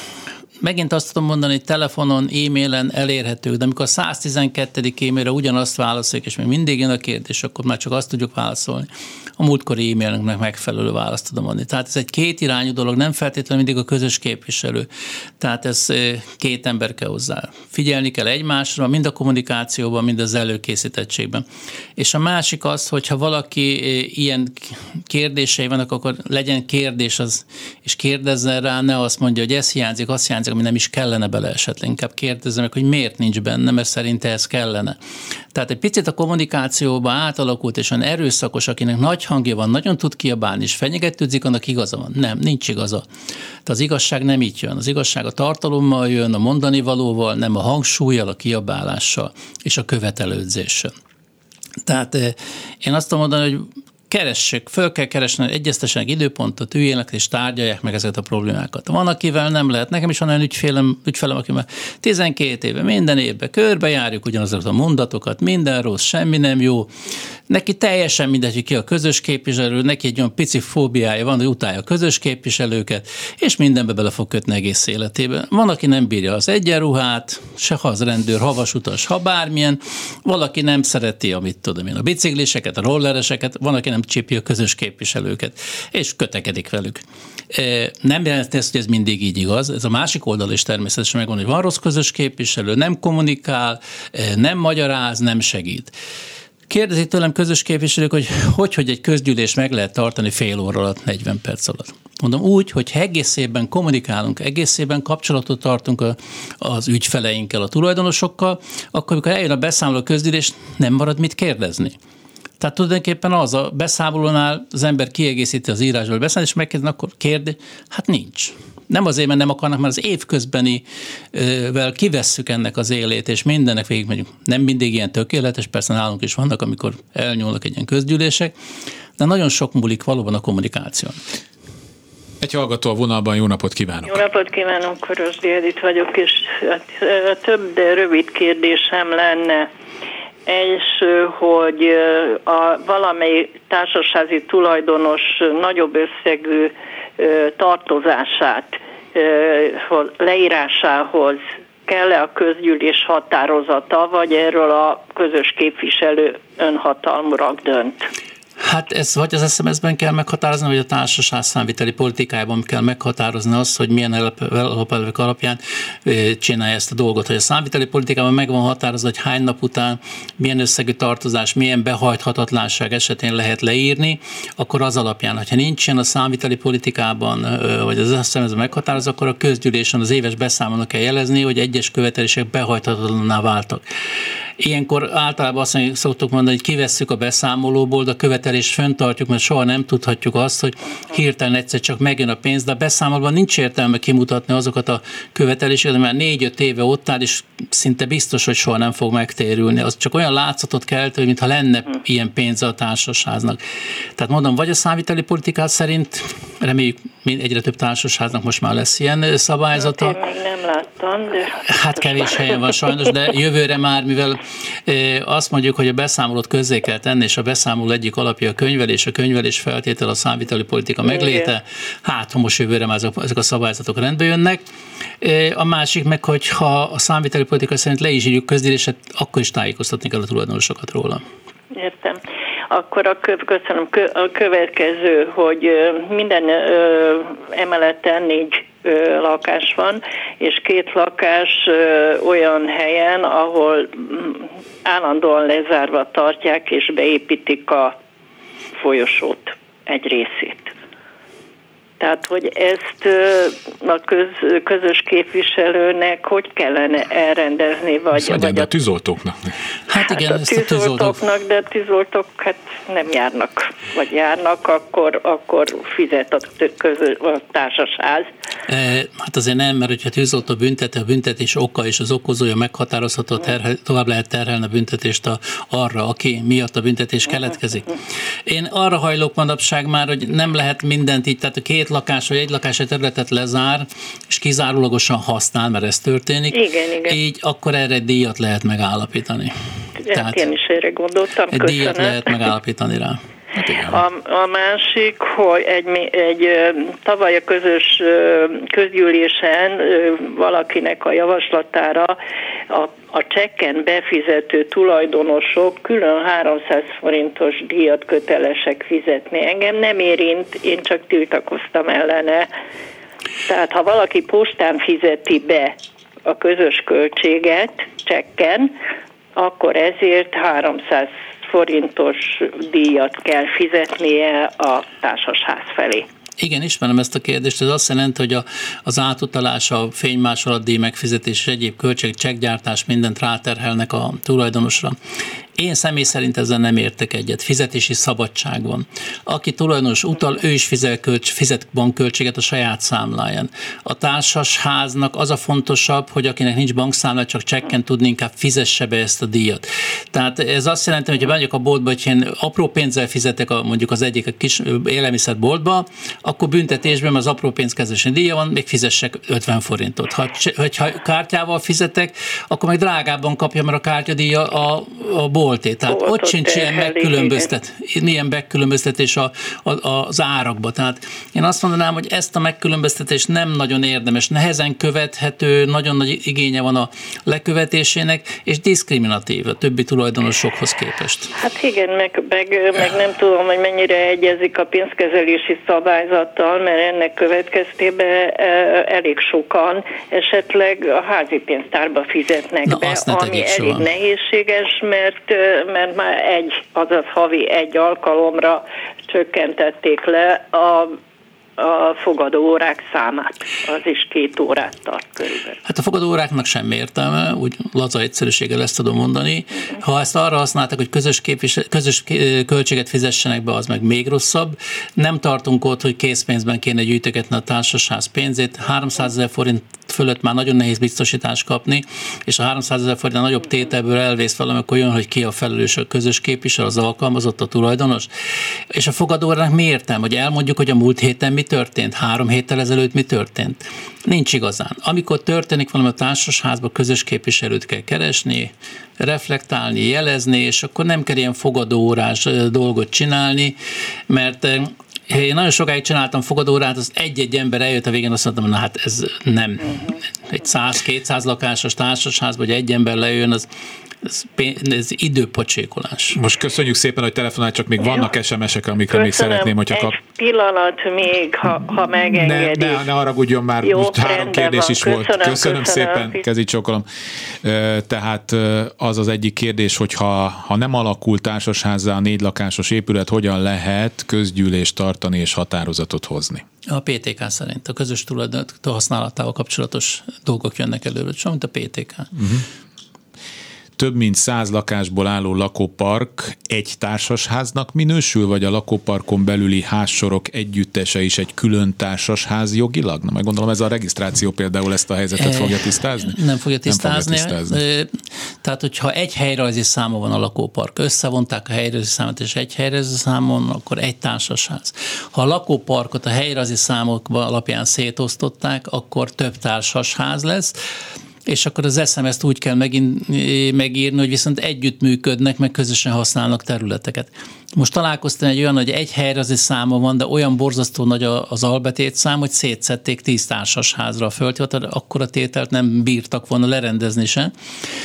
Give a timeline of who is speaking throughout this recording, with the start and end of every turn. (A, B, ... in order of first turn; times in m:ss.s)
0:00.6-0:14.9 A
0:15.4-0:21.4 A
0:22.0-0:35.0 A
0:35.5-0:43.0 A
0:43.7-0:50.9 A
0:51.9-1:06.9 A
1:07.5-1:35.9 A
1:36.7-1:52.0 A
1:52.6-2:08.5 A
2:09.2-2:11.2 A
2:12.4-2:14.2 B
2:14.1-2:19.7 C
2:20.4-2:38.1 C
2:38.6-3:03.8 A
3:04.6-3:23.6 A
3:24.2-3:30.2 A
3:29.8-3:33.0 C
3:31.7-3:44.6 A
3:41.1-3:41.5 C
3:45.2-3:51.2 A
3:51.7-4:08.0 C
4:08.8-4:10.7 C
4:12.0-4:18.7 C
4:18.1-4:19.5 B
4:19.9-4:21.2 A
4:20.0-4:28.3 C
4:28.7-4:38.0 A
4:38.5-4:49.5 A
4:46.5-4:47.2 C
4:50.1-4:52.5 C
4:50.1-4:50.4 A
4:51.5-4:53.2 A
4:53.5-4:54.0 B
4:53.8-5:02.2 C
5:02.7-5:12.5 C
5:13.4-5:15.7 C
5:16.3-5:18.7 C
5:19.4-5:26.1 C
5:26.4-5:35.0 A
5:35.6-6:21.3 A
6:05.9-6:07.5 C
6:21.4-6:41.0 C
6:32.7-6:33.9 A
6:41.6-6:45.6 C
6:45.6-7:08.1 A
7:08.7-7:23.6 A
7:24.1-7:33.4 A
7:34.0-7:36.2 A
7:36.1-7:40.0 B
7:37.8-7:38.1 C
7:38.9-7:42.8 C
7:41.9-7:46.9 B
7:43.6-7:46.2 C
7:47.4-7:56.4 B
7:56.7-8:02.1 A
8:02.1-8:02.4 B
8:03.8-8:17.6 B
8:15.2-8:30.6 A
8:31.3-8:47.3 A